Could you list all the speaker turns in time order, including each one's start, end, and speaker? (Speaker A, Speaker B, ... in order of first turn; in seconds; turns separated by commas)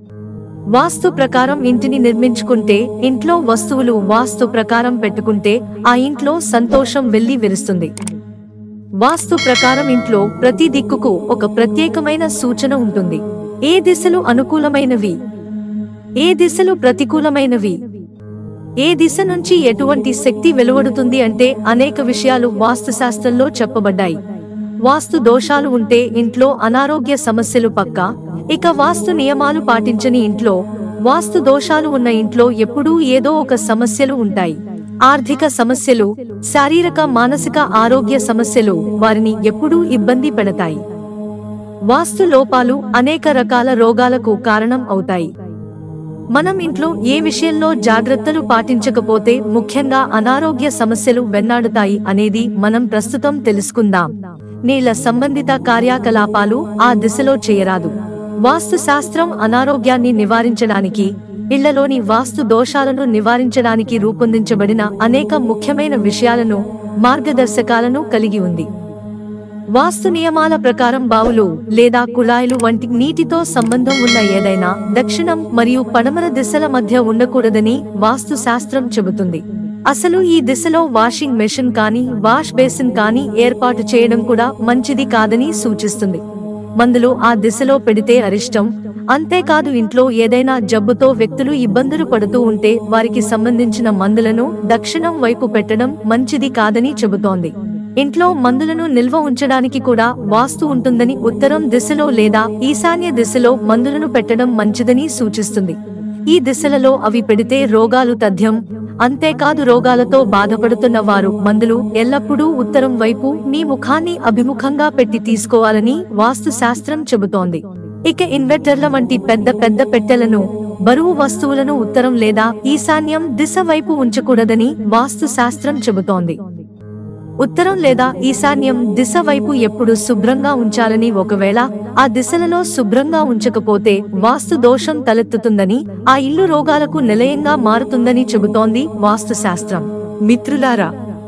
Speaker A: 0.7-7.9, Speaker A: 9.0-15.2, Speaker A: 16.2-17.8, Speaker A: 18.8-24.2, Speaker A: 24.9-30.6, Speaker A: 31.1-34.6, Speaker A: 35.1-40.8, Speaker A: 41.9-45.3, Speaker A: 46.3-54.1, Speaker A: 54.7-57.9, Speaker A: 58.5-68.7, Speaker A: 69.8-86.2, Speaker A: 86.8-105.8, Speaker A: 106.3-126.4, Speaker A: 127.4-140.9